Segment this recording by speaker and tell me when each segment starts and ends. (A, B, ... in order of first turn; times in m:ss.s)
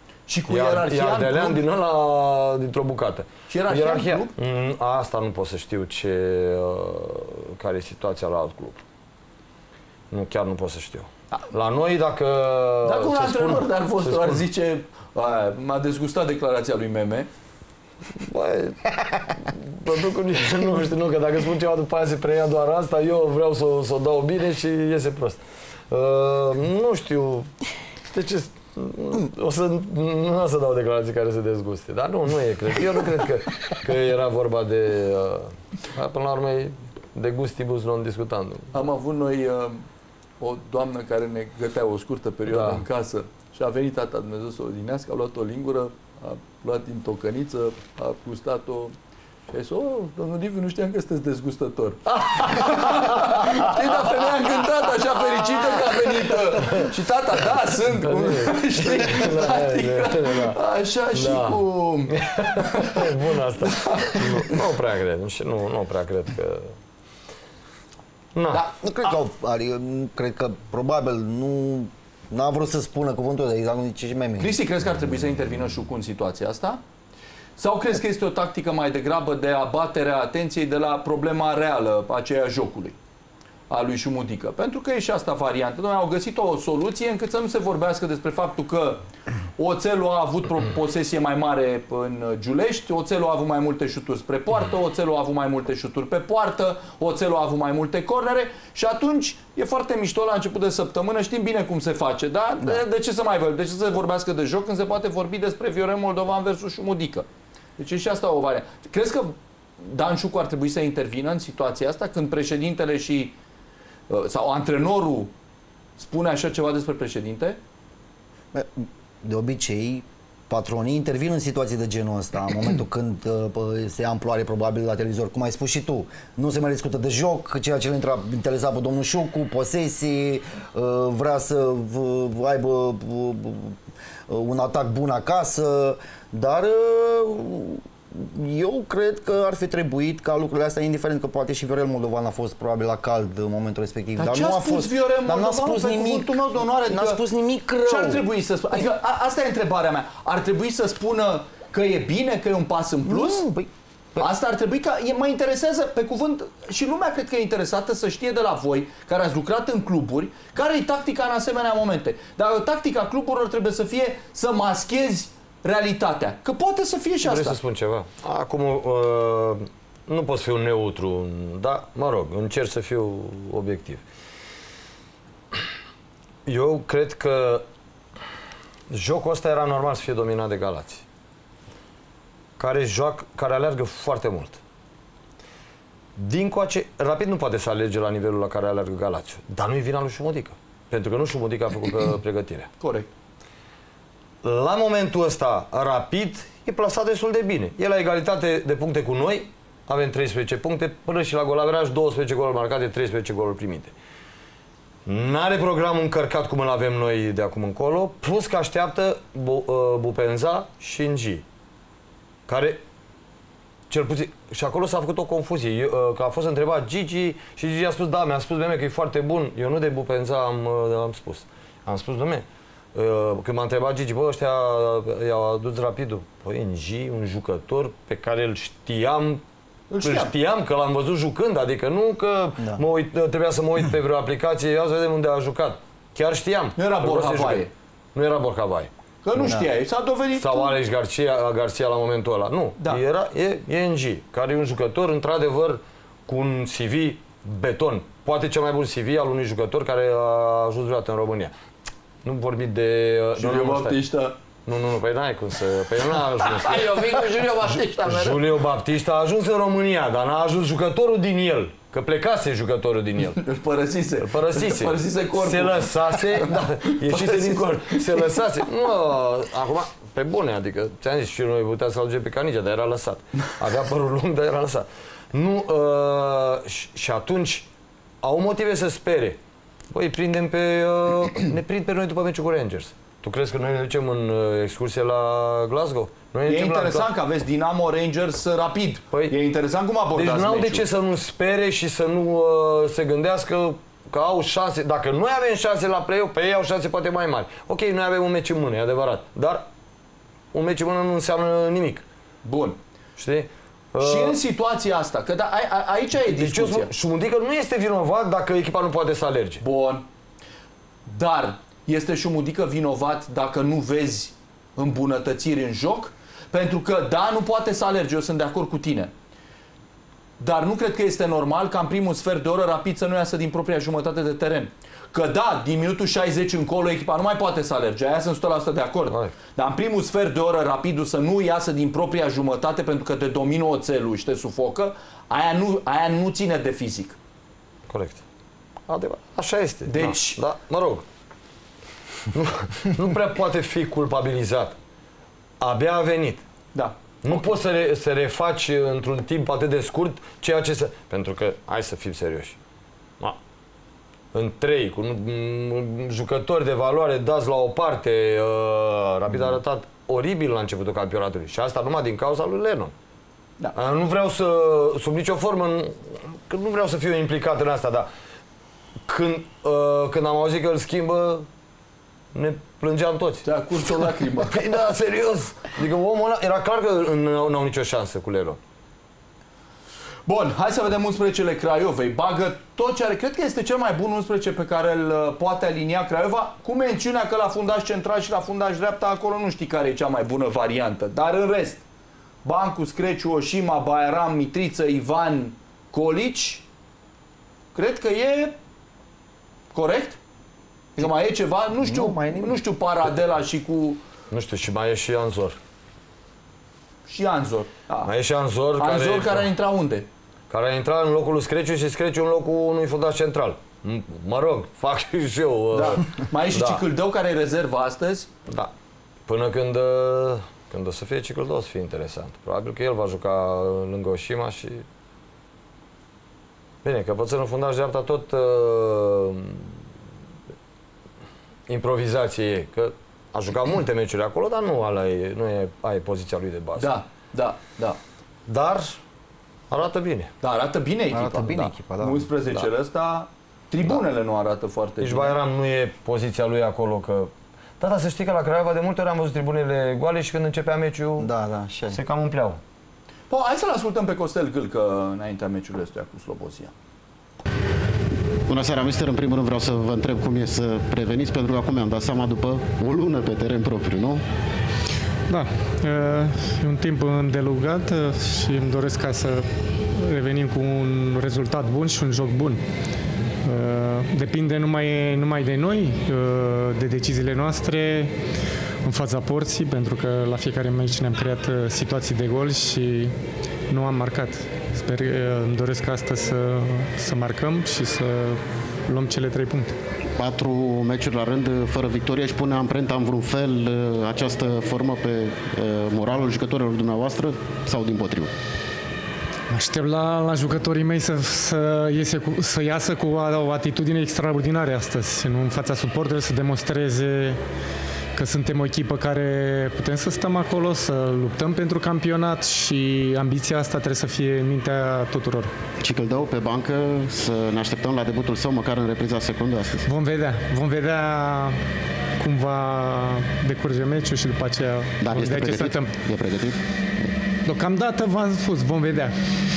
0:00.3-0:01.6 A
0:00.5-0:08.8 B
0:03.5-0:04.3 A
0:10.1-0:14.4 B
0:12.8-0:17.3 A
0:18.2-0:25.4 B
0:25.9-0:27.5 B
0:28.1-0:38.8 B
0:38.7-0:39.8 A
0:40.4-0:49.0 A
0:42.5-0:42.8 B
0:49.5-1:04.3 A
0:52.1-0:53.9 B
0:56.5-0:56.9 B
0:57.9-1:00.6 B
1:01.1-1:06.7 B
1:08.4-1:08.6 B
1:08.8-1:14.5 C
1:14.4-1:16.8 A
1:17.6-1:23.0 A
1:23.7-1:29.0 A
1:29.6-1:47.3 A
1:47.8-1:53.4 A
1:54.1-1:55.3 A
1:56.0-1:57.6 A
1:58.5-2:28.3 C
2:24.2-2:27.2 A
2:27.8-2:33.4 A
2:33.0-2:34.3 C
2:34.2-2:47.6 A
2:47.2-2:54.0 B
2:56.5-2:57.6 B
2:58.9-3:01.0 B
3:02.6-3:04.6 B
3:06.2-3:12.7 B
3:12.8-3:13.1 A
3:14.4-3:23.9 B
3:25.1-3:31.4 B
3:32.5-3:32.8 B
3:33.9-3:49.4 B
3:49.9-3:50.3 A
3:50.0-3:58.9 B
3:56.8-3:57.7 A
3:59.2-4:00.7 A
4:00.4-4:11.5 B
4:12.2-4:14.0 B
4:13.4-4:14.4 A
4:14.7-4:23.4 B
4:16.4-4:18.4 A
4:23.4-4:28.2 A
4:24.2-4:37.7 B
4:38.2-4:39.4 B
4:39.9-4:47.1 B
4:46.5-4:50.8 A
4:50.1-4:59.6 B
5:00.5-5:02.0 B
5:02.4-5:02.8 A
5:03.2-5:04.4 B
5:04.0-5:06.9 A
5:06.3-5:09.6 B
5:09.6-5:10.0 A
5:11.1-5:19.1 A
5:20.4-5:37.2 A
5:29.1-5:29.3 B
5:37.9-5:38.2 B
5:38.9-5:41.0 B
5:39.9-5:40.4 A
5:42.3-5:44.8 B
5:45.6-5:46.4 B
5:46.7-5:47.3 A
5:47.2-5:52.6 B
5:54.3-6:02.9 B
6:03.7-6:08.1 B
6:09.1-6:11.5 B
6:12.3-6:13.5 B
6:13.4-6:14.6 A
6:14.0-6:18.6 B
6:20.3-6:31.8 A
6:32.4-6:36.7 A
6:37.8-6:38.6 A
6:39.7-6:40.2 A
6:41.0-6:44.0 A
6:41.8-6:42.6 C
6:44.3-6:45.6 B
6:47.1-6:48.1 A
6:48.0-6:49.5 B
6:48.8-6:50.1 A
6:50.5-6:56.8 B
6:55.7-6:58.3 A
6:59.3-7:04.9 B
7:06.8-7:09.8 B
7:11.7-7:16.9 B
7:16.8-7:18.0 A
7:18.5-7:19.0 B
7:19.7-7:20.3 B
7:20.4-7:25.4 A
7:21.1-7:22.3 C
7:25.0-7:31.3 B
7:31.2-7:32.0 C
7:31.9-7:32.6 B
7:33.3-7:36.7 A
7:38.5-7:44.2 D
7:45.3-7:52.6 E
7:53.4-7:58.2 E
7:58.8-8:03.1 E
8:03.7-8:09.8 E
8:10.2-8:18.3 D
8:19.5-8:27.4 E
8:28.2-8:35.5 E
8:35.8-8:39.9 D
8:39.9-8:41.6 E
8:42.2-8:46.0 E
8:45.0-8:46.6 D
8:47.4-8:49.2 E